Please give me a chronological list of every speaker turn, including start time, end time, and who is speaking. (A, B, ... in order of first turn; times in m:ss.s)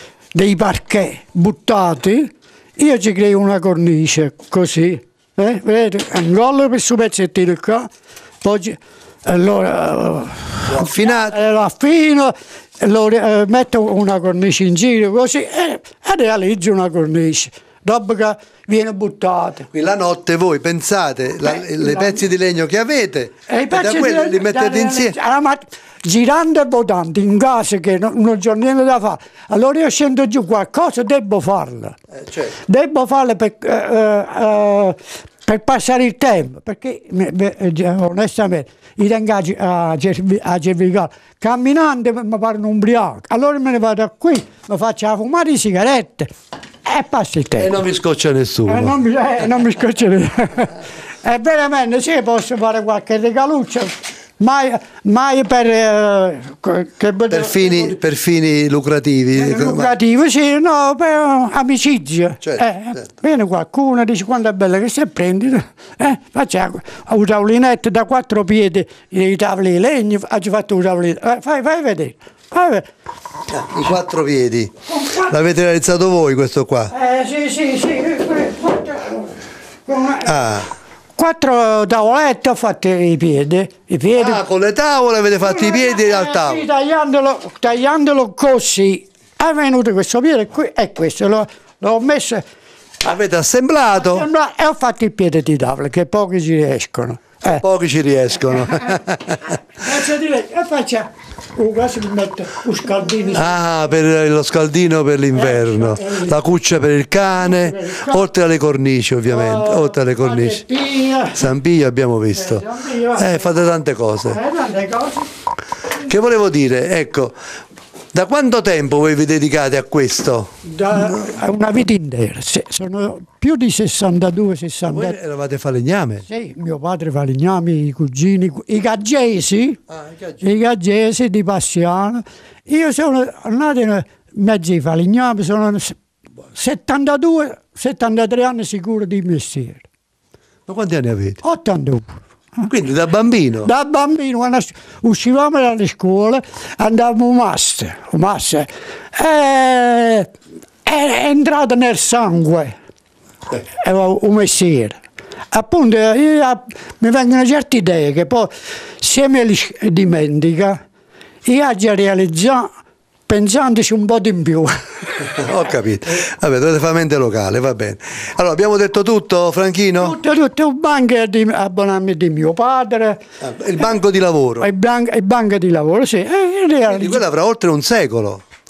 0:00.3-0:07.9 A
0:08.4-0:19.7 A
0:10.6-0:11.4 B
0:19.7-0:25.2 B
0:21.7-0:22.2 A
0:23.5-0:32.0 A
0:32.6-0:46.3 A
0:46.8-0:47.8 A
0:47.6-0:49.0 B
0:48.7-0:58.0 A
0:57.3-0:59.9 B
0:59.4-1:12.9 A
1:02.4-1:03.0 B
1:13.5-1:16.9 B
1:14.9-1:15.3 A
1:16.9-1:19.3 A
1:19.8-1:20.4 A
1:20.2-1:20.7 B
1:21.2-1:24.4 A
1:24.1-1:26.6 B
1:25.4-1:32.4 A
1:33.0-1:34.3 B
1:33.9-1:37.6 A
1:37.5-1:39.4 B
1:39.8-1:43.6 A
1:43.3-1:50.6 B
1:45.3-1:46.3 A
1:47.4-1:48.2 A
1:49.3-1:51.5 A
1:51.3-1:54.4 B
1:52.4-1:53.5 A
1:54.3-1:55.3 A
1:56.0-1:57.3 B
1:58.1-2:01.2 B
2:00.6-2:05.2 A
2:04.8-2:06.3 B
2:06.3-2:09.8 A
2:09.9-2:10.4 B
2:10.4-2:16.0 A
2:16.5-2:19.8 A
2:20.7-2:21.4 B
2:21.4-2:22.2 A
2:22.6-2:23.7 B
2:23.6-2:30.3 A
2:30.8-2:32.7 A
2:33.8-2:35.0 A
2:35.5-2:40.8 A
2:41.4-2:42.7 A
2:43.3-2:44.8 A
2:45.3-2:50.1 B
2:50.0-2:53.2 A
2:53.4-2:54.7 B
2:54.6-2:57.2 A
2:56.9-2:58.4 B